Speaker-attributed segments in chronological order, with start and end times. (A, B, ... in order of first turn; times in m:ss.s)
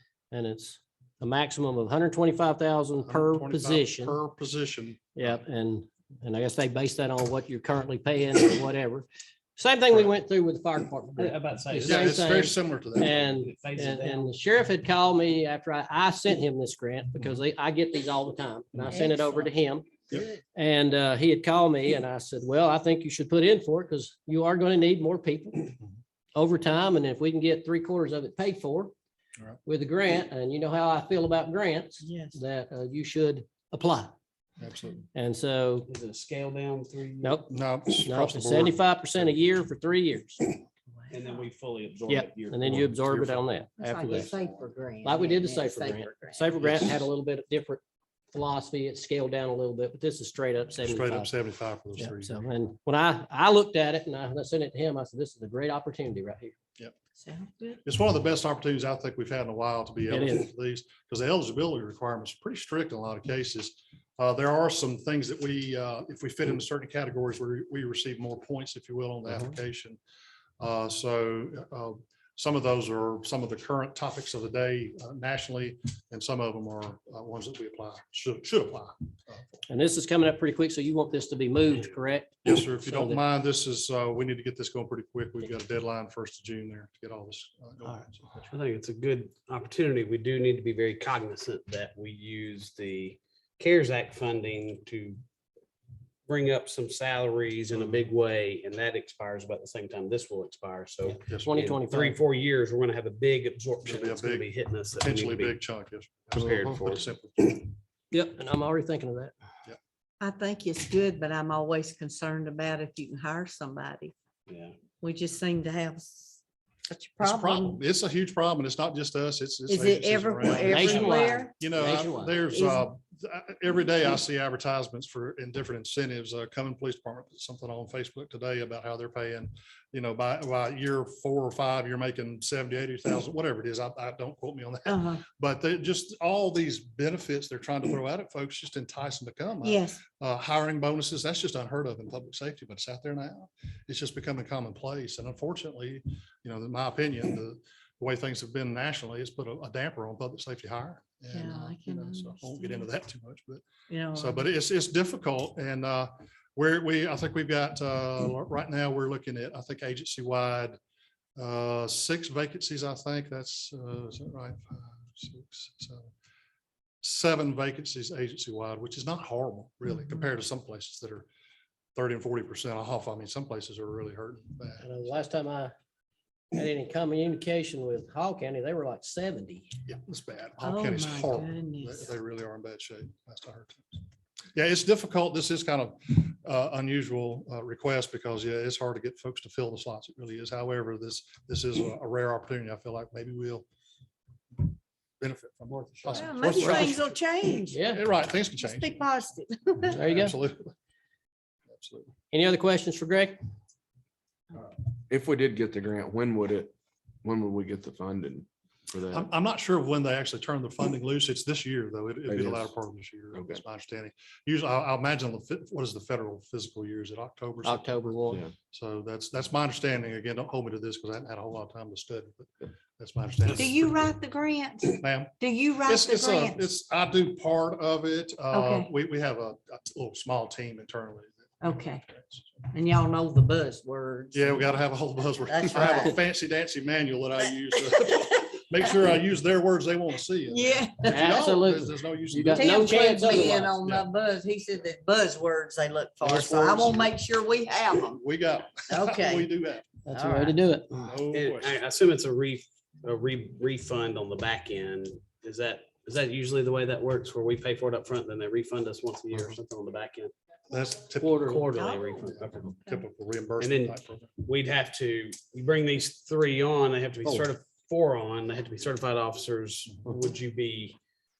0:00.3-0:04.2 A
0:03.0-0:05.4 B
0:05.2-0:25.7 A
0:11.2-0:12.5 C
0:11.8-0:13.2 B
0:13.0-0:14.3 C
0:26.3-0:28.9 A
0:29.7-0:34.2 A
0:32.0-0:32.4 D
0:34.6-0:35.0 B
0:35.1-0:35.9 A
0:35.9-0:37.4 C
0:37.2-0:37.5 A
0:37.5-0:38.8 B
0:38.0-0:40.5 A
0:41.0-0:41.4 D
0:41.1-0:43.4 C
0:42.1-0:44.3 A
0:43.8-0:46.5 D
0:45.0-0:51.3 A
0:46.6-0:47.0 B
0:50.8-0:52.4 B
0:52.0-0:56.6 A
0:57.2-0:57.8 D
0:57.8-1:10.0 B
1:00.1-1:00.5 A
1:10.6-1:19.6 B
1:19.7-1:23.2 A
1:22.4-1:28.5 B
1:28.5-1:35.2 C
1:36.3-1:45.6 C
1:41.1-1:42.2 A
1:41.2-1:41.5 B
1:43.8-1:47.7 B
1:46.3-1:47.0 C
1:48.1-1:49.3 A
1:50.2-1:54.1 D
1:54.5-1:54.8 C
1:55.0-1:57.8 D
1:57.2-2:40.8 B
1:59.7-2:01.6 D
2:00.6-2:02.4 A
2:02.4-2:02.9 D
2:14.8-2:15.2 D
2:19.6-2:20.0 D
2:31.3-2:32.8 D
2:33.9-2:34.5 D
2:41.4-2:46.1 B
2:47.0-2:51.3 B
2:52.0-2:55.2 B
2:54.8-2:55.7 A
2:56.5-2:59.7 A
2:59.8-3:04.0 B
3:00.6-3:02.0 D
3:04.5-3:13.7 B
3:14.6-3:17.1 B
3:16.1-3:17.8 D
3:16.5-3:16.9 A
3:17.7-3:18.0 A
3:17.8-3:19.0 B
3:18.6-3:20.0 D
3:19.9-3:20.7 B
3:20.0-3:20.4 A
3:21.7-3:22.1 B
3:22.3-3:23.4 A
3:25.1-3:26.7 E
3:27.2-3:29.3 E
3:29.1-3:43.9 B
3:32.3-3:32.7 E
3:33.3-3:33.6 E
3:37.6-3:38.4 A
3:43.4-3:43.7 C
3:43.5-3:46.6 D
3:45.0-3:45.3 B
3:45.8-3:52.5 B
3:48.5-3:48.9 D
3:51.6-3:52.0 D
3:52.7-3:54.8 D
3:54.3-4:04.1 B
3:55.4-3:56.1 D
4:00.5-4:01.4 D
4:01.1-4:03.7 A
4:02.5-4:08.2 D
4:06.2-4:07.1 B
4:08.1-4:09.9 B
4:08.8-4:09.5 D
4:10.0-4:11.1 A
4:10.1-4:10.6 D
4:11.0-4:11.8 B
4:11.3-4:20.3 C
4:20.7-4:21.5 B
4:21.2-4:21.7 A
4:21.4-4:22.8 C
4:21.7-4:22.2 D
4:22.2-4:24.3 B
4:23.6-4:31.0 C